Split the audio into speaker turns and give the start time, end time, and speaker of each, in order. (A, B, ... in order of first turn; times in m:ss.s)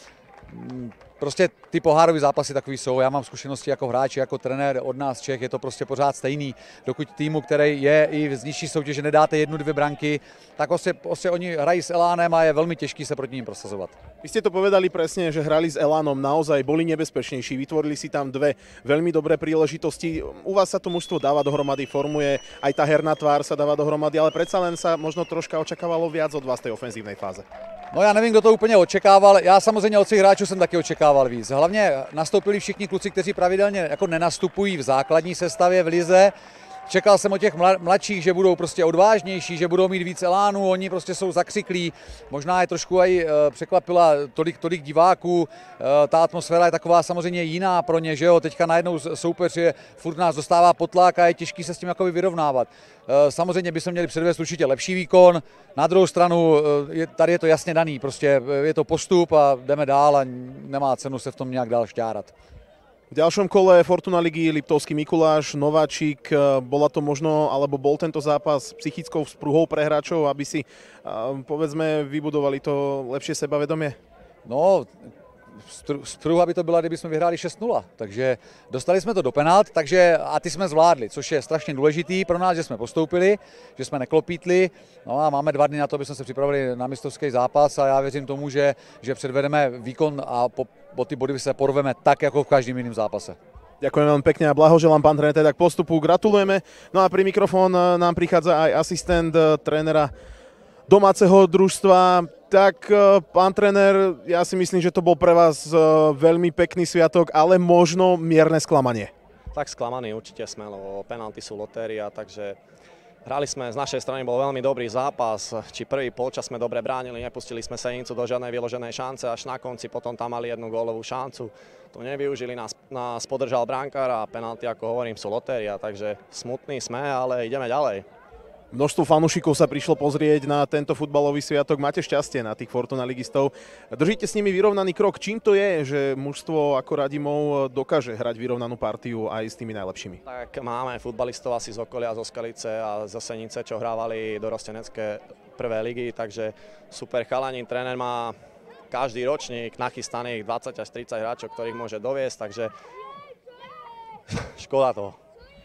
0:00.5-0:14.0 A
0:14.2-0:27.4 B
0:27.9-0:36.3 A
0:36.9-1:02.3 A
1:03.1-1:14.0 B
1:14.4-1:33.4 A
1:33.8-1:40.1 B
1:40.9-1:49.1 B
1:49.5-1:52.6 C
1:53.2-2:08.1 C
2:08.7-2:20.2 B
2:20.2-2:28.3 C
2:28.9-2:32.7 C
2:34.3-2:35.2 C